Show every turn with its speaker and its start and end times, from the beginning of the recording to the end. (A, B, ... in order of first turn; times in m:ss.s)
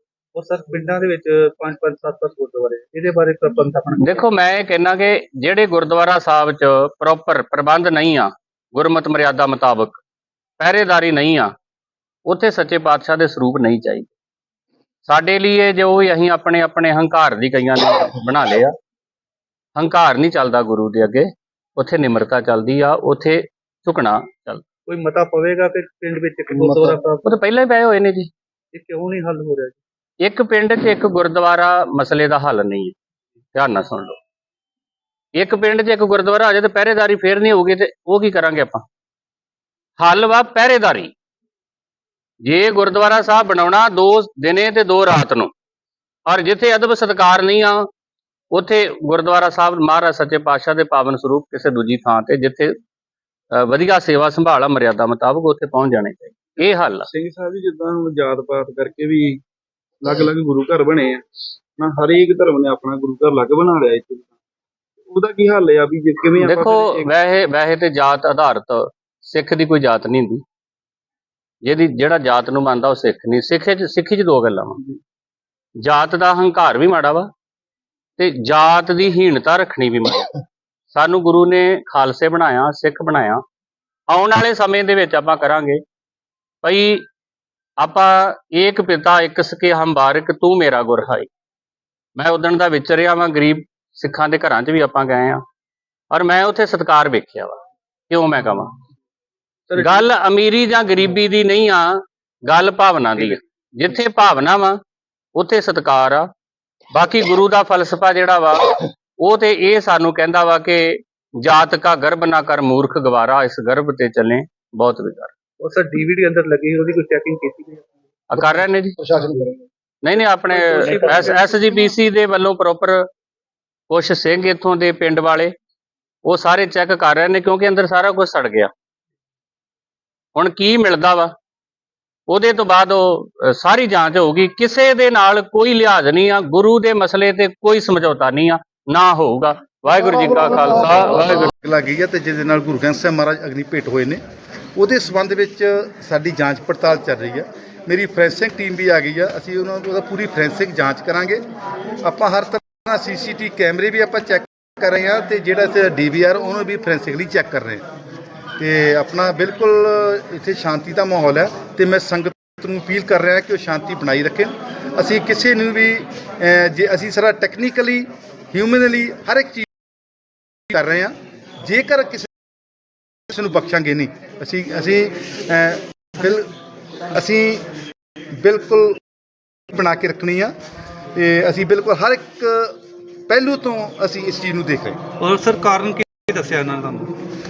0:00.4-0:04.2 A
0:04.0-0:10.0 B
0:10.6-0:11.5 B
0:12.3-0:14.1 B
0:15.1-0:18.7 B
0:19.8-0:24.6 B
0:24.9-0:27.3 A
0:27.2-0:28.3 B
0:28.7-0:29.8 A
0:30.2-0:33.0 B
0:33.5-0:34.2 B
0:35.4-0:38.9 B
0:40.0-0:41.1 B
0:42.4-0:45.5 B
0:46.3-0:47.9 B
0:48.5-0:52.8 B
0:53.6-0:57.1 B
0:57.1-0:59.4 C
1:00.0-1:01.2 C
1:01.8-1:04.4 C
1:05.0-1:07.1 C
1:06.4-1:10.4 B
1:11.7-1:14.8 B
1:15.8-1:17.3 B
1:18.2-1:23.4 B
1:24.1-1:25.8 B
1:26.6-1:27.1 B
1:27.8-1:31.3 B
1:32.2-1:35.4 B
1:36.1-1:38.7 B
1:39.7-1:40.0 A
1:39.8-1:44.8 B
1:45.4-1:46.3 B
1:46.9-1:55.3 B
1:55.6-1:57.9 A
1:58.3-1:59.0 B
2:00.0-2:03.1 B
2:00.5-2:01.6 A
2:03.9-2:05.5 B
2:06.2-2:08.7 B
2:10.4-2:11.3 B
2:12.3-2:21.5 B
2:21.6-2:24.2 D
2:24.8-2:31.4 D
2:32.0-2:37.8 D
2:38.6-2:49.7 D
2:50.7-2:52.3 D
2:53.3-2:56.5 D
2:57.1-2:57.7 D
2:58.4-2:59.0 D
2:59.7-3:00.6 D
3:01.2-3:02.8 D
3:03.3-3:05.0 D
3:05.2-3:07.1 A